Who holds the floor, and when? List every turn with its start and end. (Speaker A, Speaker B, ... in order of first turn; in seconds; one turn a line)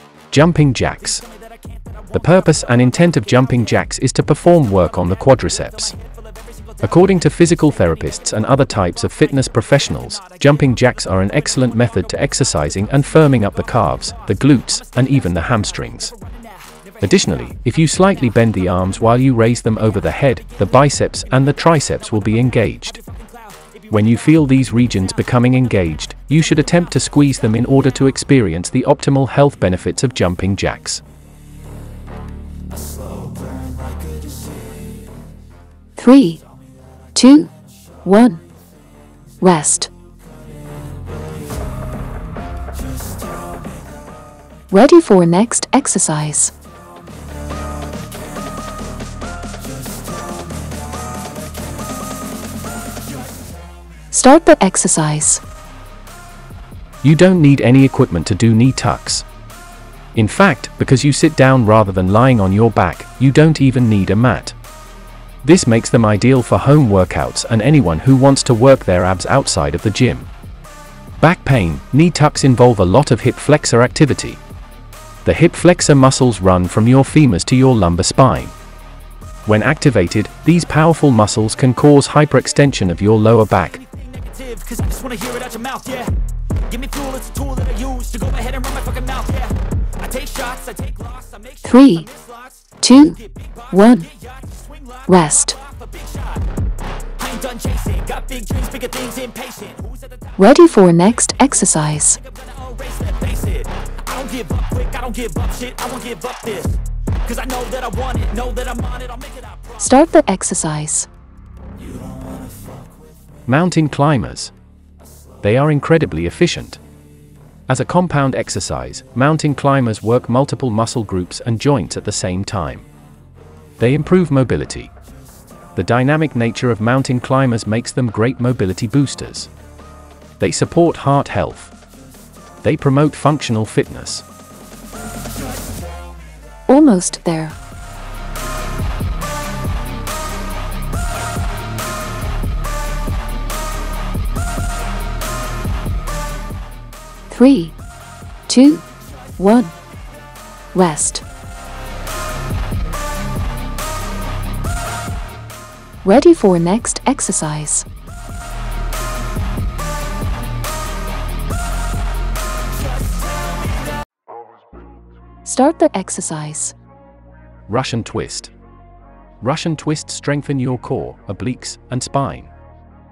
Speaker A: 0.3-1.2
Speaker B: 1.2-3.6
Speaker A: 2.1-5.9
Speaker B: 4.9-19.0
Speaker A: 6.8-16.1
Speaker A: 17.0-23.0
Speaker B: 20.1-25.4
Speaker A: 23.9-31.0
Speaker B: 26.7-27.0
Speaker C: 36.0-36.4
Speaker C: 37.1-37.5
Speaker C: 38.0-38.4
Speaker C: 39.4-39.9
Speaker C: 44.7-46.5
Speaker C: 54.1-55.4
Speaker A: 57.0-59.2
Speaker A: 60.1-64.5
Speaker A: 65.4-70.3
Speaker A: 71.2-74.4
Speaker A: 75.2-78.5
Speaker A: 79.5-83.8
Speaker B: 83.8-86.1
Speaker B: 86.7-92.4
Speaker C: 91.6-92.1
Speaker C: 92.8-93.2
Speaker B: 93.7-96.4
Speaker C: 93.7-94.1
Speaker C: 95.1-95.5
Speaker B: 97.2-100.3
Speaker C: 100.4-102.2
Speaker B: 102.2-109.8
Speaker C: 109.8-111.1
Speaker A: 113.5-114.5
Speaker A: 115.4-116.8
Speaker A: 117.7-122.9
Speaker A: 123.8-124.9
Speaker A: 125.8-129.5
Speaker A: 130.4-131.7
Speaker A: 132.6-134.2
Speaker C: 136.7-137.6
Speaker C: 147.3-147.7
Speaker C: 148.5-148.8
Speaker C: 149.4-149.7
Speaker C: 150.7-151.2
Speaker C: 156.0-157.8
Speaker C: 165.4-166.7
Speaker A: 167.7-168.5
Speaker A: 169.4-172.5